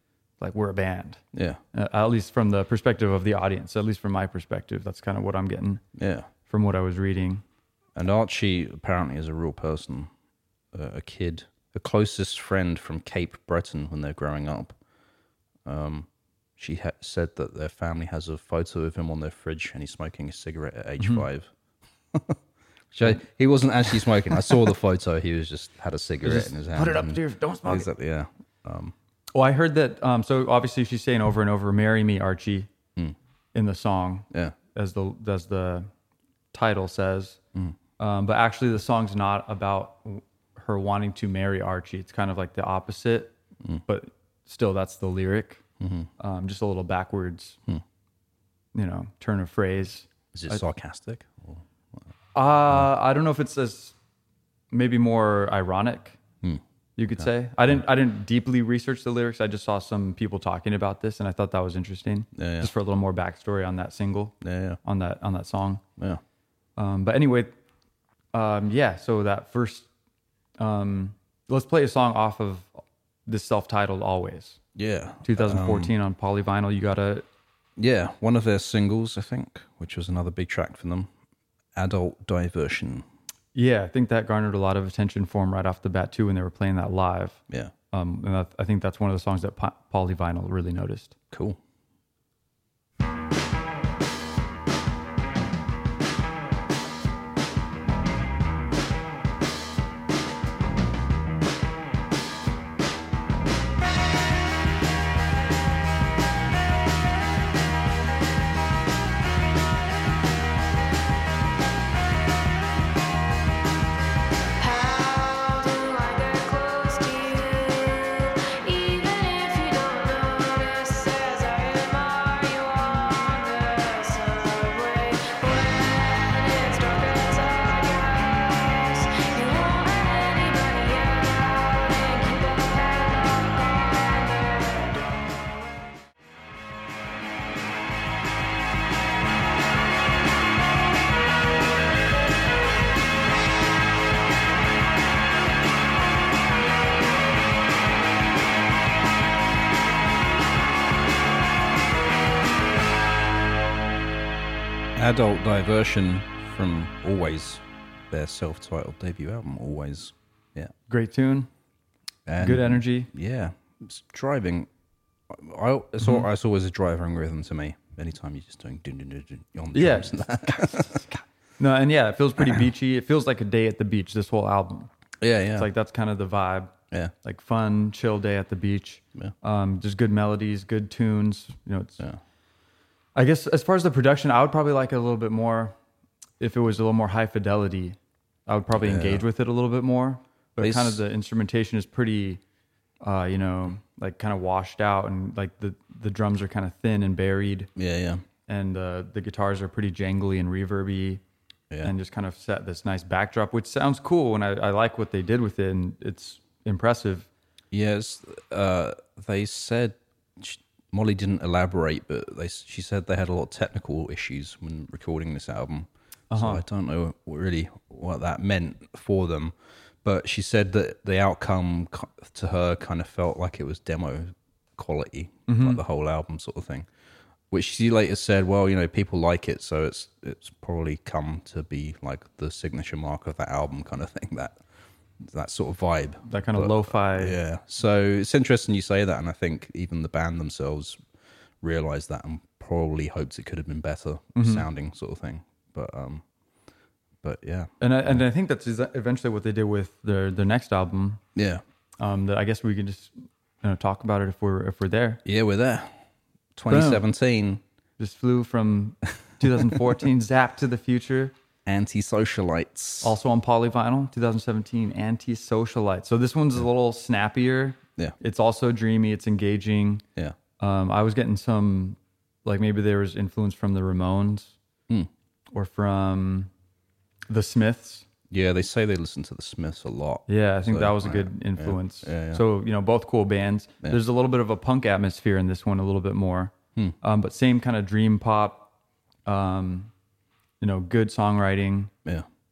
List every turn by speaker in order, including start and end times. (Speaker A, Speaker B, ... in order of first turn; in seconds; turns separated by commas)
Speaker A: 0.4-1.2, Speaker B: 1.3-1.6, Speaker A: 1.7-5.8, Speaker B: 6.0-6.3, Speaker A: 6.5-7.4, Speaker B: 8.0-10.1, Speaker B: 10.7-14.8, Speaker B: 15.7-21.5, Speaker A: 21.0-21.3, Speaker B: 22.1-22.4, Speaker B: 22.9-28.9, Speaker A: 24.3-24.6, Speaker A: 26.2-27.9, Speaker A: 29.3-32.7, Speaker A: 33.5-35.9, Speaker B: 34.3-34.6, Speaker A: 36.5-37.4, Speaker A: 38.0-43.3, Speaker A: 43.9-45.6, Speaker B: 45.8-46.1, Speaker A: 46.2-47.6, Speaker A: 48.8-50.6, Speaker B: 50.3-52.0, Speaker A: 52.4-54.0, Speaker A: 54.7-56.2, Speaker A: 57.0-65.8, Speaker B: 62.4-62.7, Speaker B: 64.4-64.8, Speaker B: 66.0-66.2, Speaker A: 66.8-67.5, Speaker A: 68.3-69.9, Speaker A: 70.6-74.6, Speaker B: 74.8-75.9, Speaker A: 75.2-77.2, Speaker B: 77.8-81.1, Speaker B: 81.8-83.0, Speaker A: 83.5-91.2, Speaker B: 91.3-91.6, Speaker C: 114.6-135.0, Speaker B: 155.0-160.7, Speaker A: 160.9-161.5, Speaker B: 162.3-164.7, Speaker A: 162.4-163.1, Speaker B: 165.3-171.0, Speaker A: 169.7-174.9, Speaker B: 175.2-175.7, Speaker A: 175.6-182.0, Speaker A: 183.2-185.8, Speaker A: 186.4-192.4, Speaker B: 188.7-189.2, Speaker B: 190.6-191.0, Speaker A: 193.0-197.7, Speaker B: 197.8-198.2, Speaker A: 198.5-201.2, Speaker A: 201.8-207.3, Speaker B: 207.7-226.9, Speaker A: 216.3-216.6, Speaker A: 225.5-225.8, Speaker B: 227.5-234.6, Speaker B: 235.2-241.0, Speaker A: 236.3-237.4, Speaker B: 241.6-246.2, Speaker A: 244.4-244.7, Speaker B: 247.2-248.2, Speaker A: 247.8-251.2, Speaker B: 251.3-251.6, Speaker A: 252.0-255.2, Speaker B: 255.2-256.0, Speaker B: 256.6-257.6, Speaker A: 256.7-257.0, Speaker A: 258.0-261.3, Speaker B: 261.7-263.2, Speaker A: 263.0-270.0, Speaker A: 270.6-274.6, Speaker A: 275.5-276.5, Speaker A: 277.3-278.1, Speaker B: 278.3-282.4, Speaker A: 280.3-288.7, Speaker A: 289.3-289.9, Speaker A: 290.6-291.9